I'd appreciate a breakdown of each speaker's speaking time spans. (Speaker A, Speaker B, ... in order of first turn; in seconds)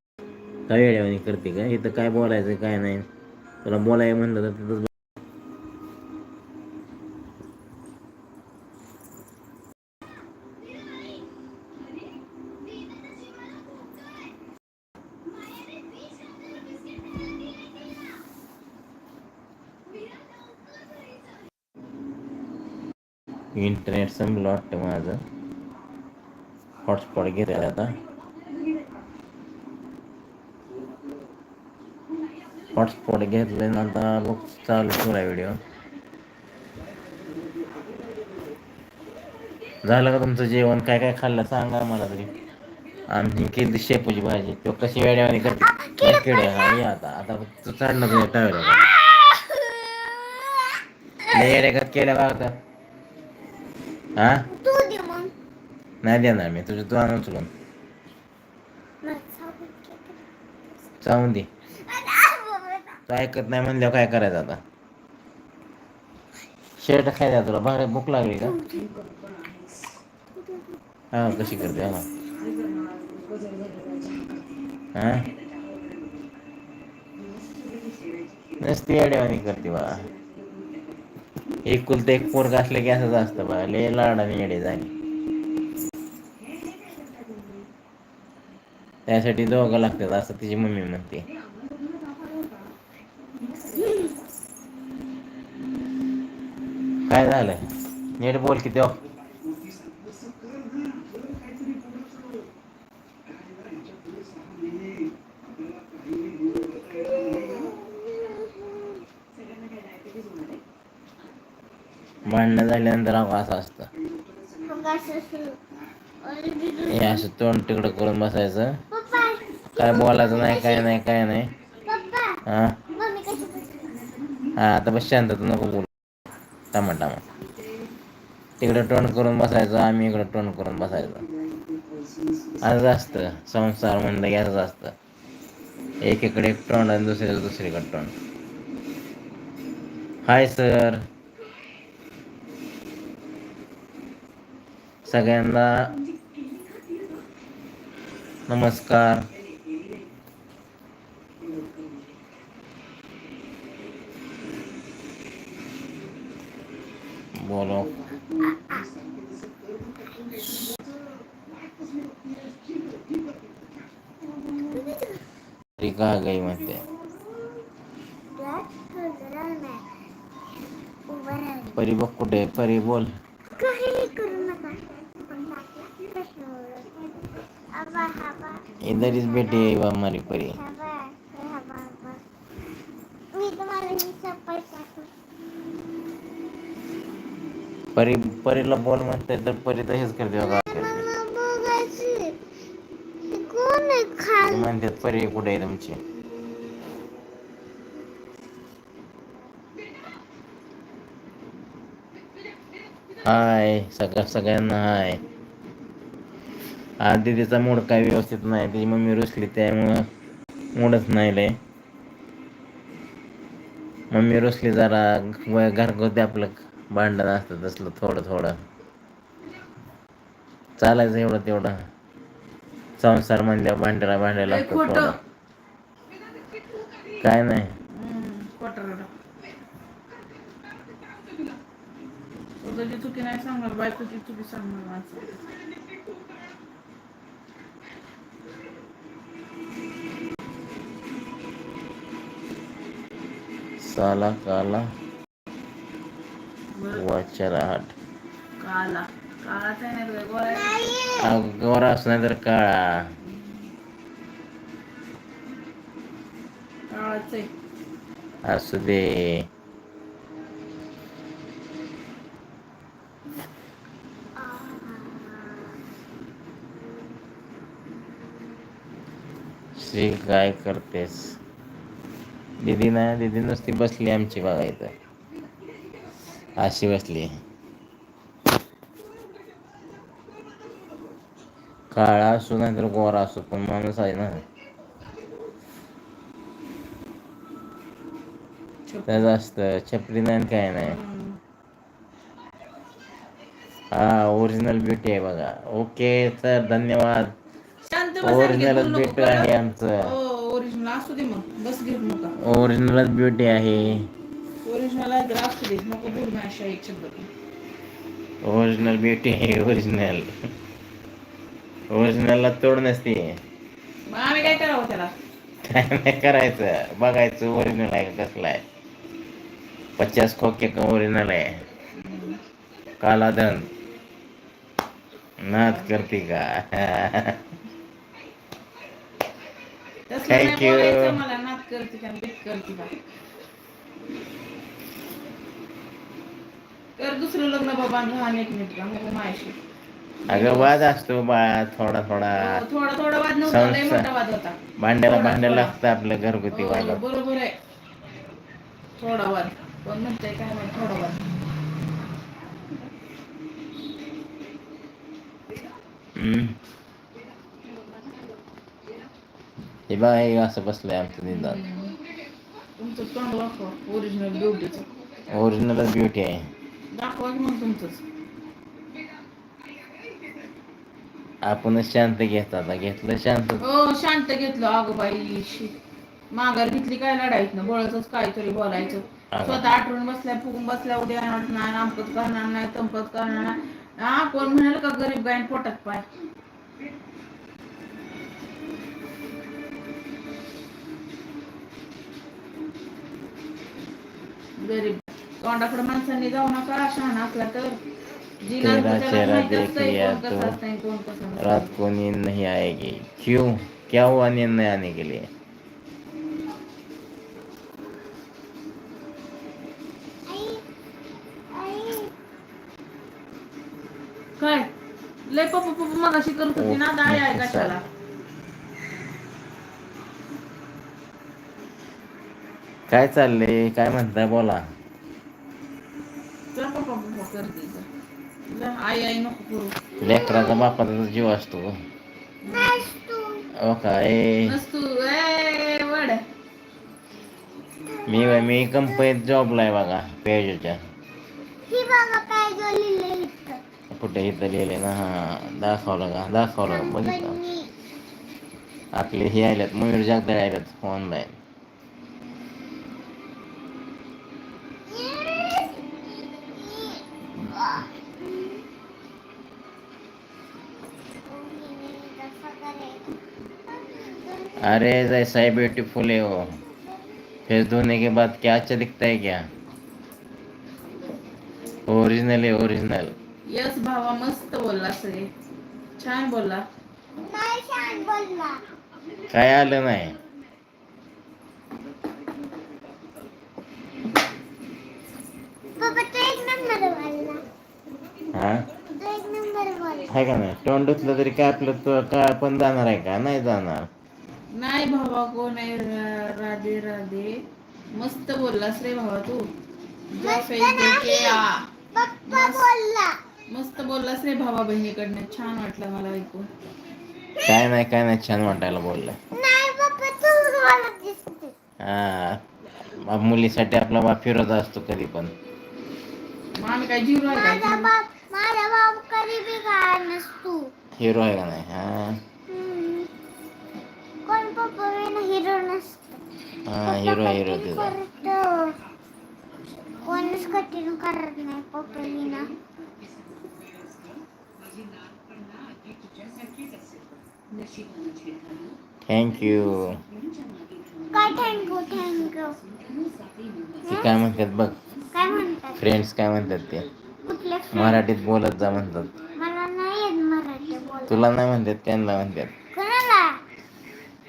Speaker A: 0.7-3.1, 3.6-4.9, 23.6-25.2, 26.8-28.0, 32.7-35.6, 39.8-42.3, 43.1-48.9, 51.3-52.6, 54.2-54.5, 56.0-57.5, 61.0-61.5, 63.1-64.6, 66.8-68.6, 71.1-72.1, 74.9-75.3, 78.6-80.1, 81.7-84.9, 89.1-91.3, 97.1-97.6, 98.2-99.0, 112.3-113.9, 116.9-118.8, 119.8-121.5, 122.5-122.8, 124.6-125.9, 126.7-127.2, 128.6-131.3, 132.6-134.9, 136.0-138.1, 140.2-141.1, 145.1-145.9, 148.5-149.3, 157.4-157.9, 165.8-166.8, 171.8-173.1, 178.8-180.6, 187.9-191.1, 194.4-196.0, 203.2-205.2, 207.0-210.1, 210.8-211.6, 214.1-218.6, 220.8-221.9, 223.0-225.2, 227.2-227.8, 243.8-244.9, 246.9-247.9, 251.2-253.1, 258.4-259.5, 269.8-271.4, 272.6-274.9, 276.6-277.4, 281.9-284.4, 289.1-291.0, 293.9-297.4, 298.2-300.1, 302.4-304.1, 308.4-310.5, 311.9-313.4, 315.6-318.6, 320.0-321.6, 323.0-323.7, 325.4-327.4, 330.3-331.2, 340.3-342.6, 343.4-344.1, 344.8-347.0, 356.1-356.6, 359.9-361.6, 365.3-366.5, 371.4-373.6, 379.3-379.7, 398.6-400.6, 401.4-405.3, 416.6-417.8, 422.9-424.6, 430.0-431.8, 433.6-434.6, 438.1-440.8, 443.9-447.4, 448.9-451.4, 464.6-466.6, 467.5-469.5, 471.9-473.1, 479.3-480.2, 488.3-488.6, 490.1-493.9, 507.4-509.2, 511.8-512.4, 512.9-515.3, 521.0-522.2, 526.7-528.0, 539.1-540.0, 543.9-544.8, 545.8-546.9, 547.7-549.1, 551.1-552.5
Speaker B: 45.7-46.8, 48.8-51.6, 54.5-55.3, 59.0-60.2, 61.8-63.0, 68.5-69.0, 70.4-70.6, 106.7-109.0, 114.6-115.6, 116.2-117.2, 118.9-120.9, 121.8-122.4, 122.9-123.9, 158.3-158.9, 160.2-160.5, 164.2-165.2, 168.3-169.8, 171.1-171.8, 173.5-177.0, 177.7-179.8, 180.4-182.2, 183.3-185.1, 190.4-192.4, 193.3-194.7, 250.5-251.3, 264.4-265.7, 410.3-410.6, 411.5-412.1, 430.0-430.8, 432.5-433.5, 437.8-439.1, 441.7-443.6, 446.7-447.7, 454.9-458.6, 461.3-464.8, 477.2-478.6, 485.8-487.4, 489.0-490.1, 500.2-503.2, 509.3-511.5, 517.3-520.7, 522.5-523.1, 524.3-526.2, 526.8-528.8, 530.0-532.5, 541.1-542.6, 543.9-544.1, 545.1-545.8, 547.2-548.0, 549.4-551.2, 552.7-553.4
Speaker C: 224.5-225.2, 227.9-229.1, 232.6-235.4, 246.8-247.0, 248.6-250.9, 256.9-257.5, 290.8-291.4, 297.9-302.4, 304.6-307.3, 314.1-315.1, 322.0-322.4, 330.1-332.9, 337.0-339.6, 340.3-340.7, 342.4-345.8, 346.5-347.6, 349.0-351.2, 361.3-361.9, 362.8-364.9, 366.9-368.0, 373.6-375.8, 376.3-386.1, 394.6-397.8, 398.4-401.8, 414.4-414.7, 415.3-417.8, 426.5-427.9, 428.5-429.8, 432.4-432.9, 434.5-436.2, 473.5-475.3, 476.0-476.6, 494.6-497.4, 497.9-499.5, 500.1-501.6, 502.3-502.7, 503.5-506.5, 516.6-517.9